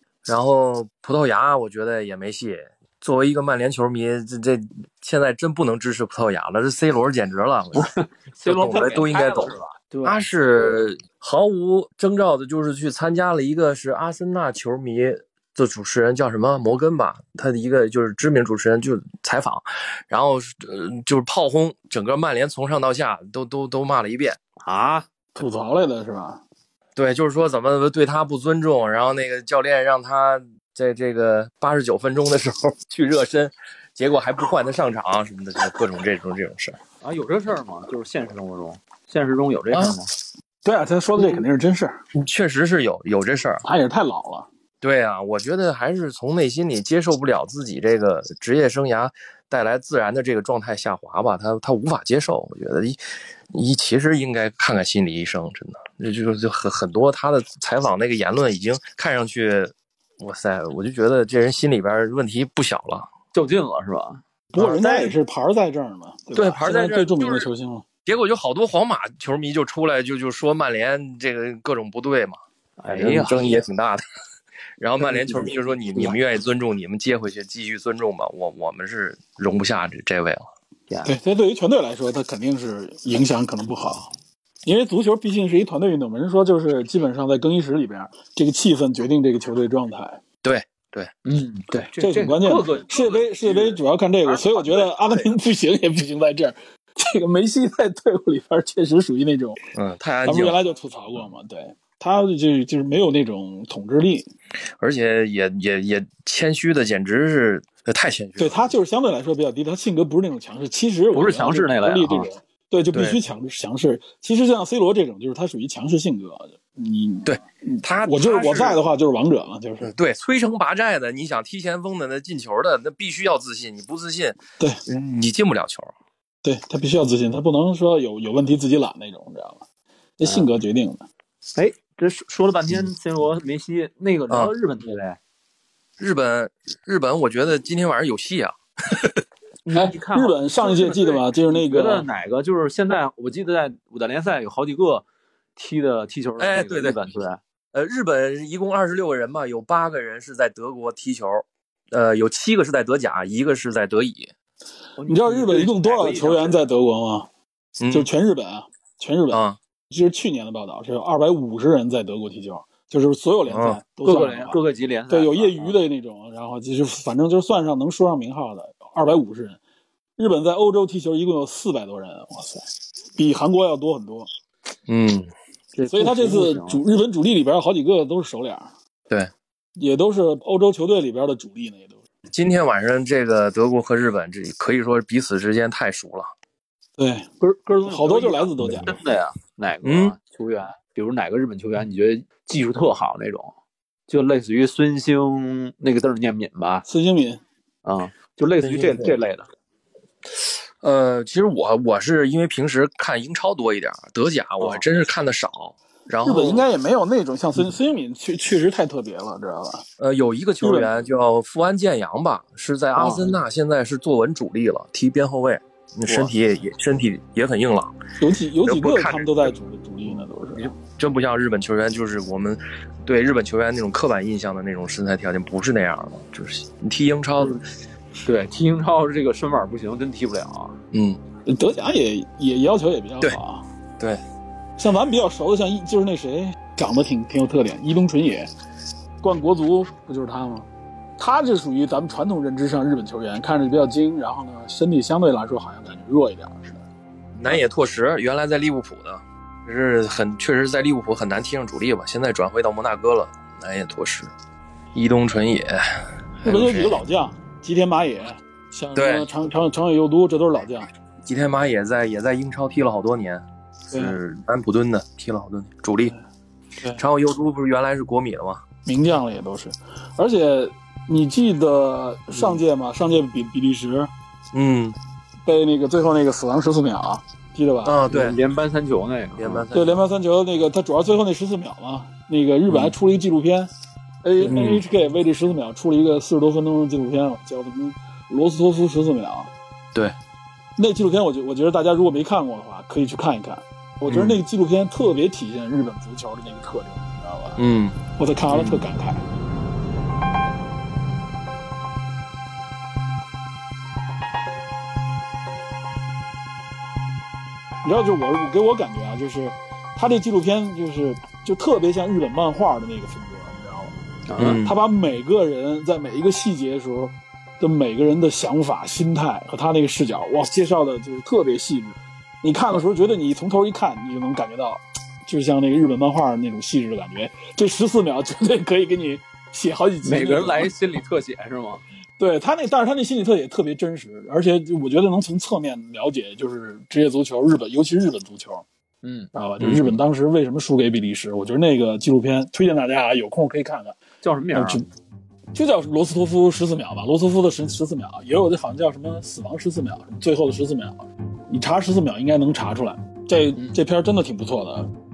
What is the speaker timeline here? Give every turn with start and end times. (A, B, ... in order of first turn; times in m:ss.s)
0:00.2-0:07.9 A
0:07.8-0:10.2 B
0:08.4-0:24.4 A
0:24.6-0:25.1 B
0:25.4-0:26.4 C
0:27.0-0:36.8 A
0:37.0-0:40.1 B
0:40.6-0:42.0 C
0:42.2-0:43.6 A
0:43.6-0:44.5 C
0:44.8-0:53.0 A
0:53.5-1:03.1 A
1:03.3-1:04.2 B
1:04.5-1:07.8 C
1:04.6-1:05.1 A
1:06.4-1:07.5 A
1:08.1-1:14.0 A
1:12.8-1:13.6 B
1:14.8-1:20.5 A
1:15.0-1:16.2 B
1:21.0-1:24.1 C
1:24.6-1:30.2 C
1:30.4-1:31.1 A
1:31.2-1:35.3 B
1:32.0-1:39.6 C
1:39.8-1:40.6 A
1:40.2-1:44.3 C
1:44.8-1:48.7 A
1:48.4-1:59.9 C
1:51.1-1:52.3 B
1:52.9-1:53.2 A
1:57.2-1:58.8 A
1:59.8-2:05.9 A
2:06.4-2:09.6 C
2:10.2-2:11.0 C
2:11.6-2:15.2 B
2:16.0-2:19.2 A
2:19.7-2:27.4 B
2:19.7-2:22.1 C
2:26.4-2:27.0 A
2:27.7-2:34.3 A
2:35.0-2:36.6 B
2:35.1-2:37.3 C
2:37.8-2:38.1 A
2:37.9-2:44.6 C
2:39.3-2:39.6 A
2:43.5-2:43.8 A
2:44.0-2:45.8 B
2:45.1-2:49.6 C
2:50.2-2:52.6 C
2:53.2-2:54.3 C
2:54.9-2:55.3 A
2:55.8-2:56.8 B
2:55.9-2:58.7 C
2:59.8-3:02.0 C
3:02.3-3:06.3 A
3:07.0-3:09.0 C
3:07.6-3:13.5 B
3:09.8-3:10.2 A
3:14.1-3:16.9 B
3:16.9-3:17.4 C
3:17.8-3:19.5 B
3:18.6-3:19.2 A
3:20.8-3:26.7 A
3:24.6-3:24.9 B
3:26.2-3:29.8 C
3:30.0-3:38.0 A
3:30.6-3:30.9 C
3:38.2-3:40.7 C
3:38.6-3:39.5 A
3:40.6-3:47.6 A
3:48.2-3:50.8 B
3:50.9-3:51.2 A
3:51.5-3:53.6 C
3:54.8-3:58.5 C
3:59.2-4:00.7 C
4:01.2-4:06.8 C
4:07.4-4:14.3 A
4:14.9-4:17.0 A
4:16.4-4:20.9 C
4:19.0-4:19.3 A
4:21.2-4:26.2 A
4:23.9-4:24.2 C
4:27.0-4:28.6 A
4:28.9-4:34.1 C
4:34.5-4:35.0 A
4:35.5-4:38.0 C
4:37.8-4:38.4 A
4:38.1-4:39.7 B
4:39.4-4:40.0 A
4:39.7-4:43.7 C
4:42.7-4:42.9 A
4:44.2-4:49.5 C
4:44.4-4:44.8 A
4:50.8-4:57.6 C
4:54.1-4:54.4 A
4:57.6-4:58.0 A
4:58.2-4:59.2 C
5:07.8-5:13.9 C
5:14.3-5:14.6 B
5:14.4-5:14.8 A
5:14.5-5:30.7 C
5:30.0-5:31.8 B
5:32.2-5:38.6 C
5:39.0-5:40.0 B
5:39.3-5:44.0 C
5:44.2-5:44.8 B
5:44.5-5:44.8 C
5:45.6-5:54.9 C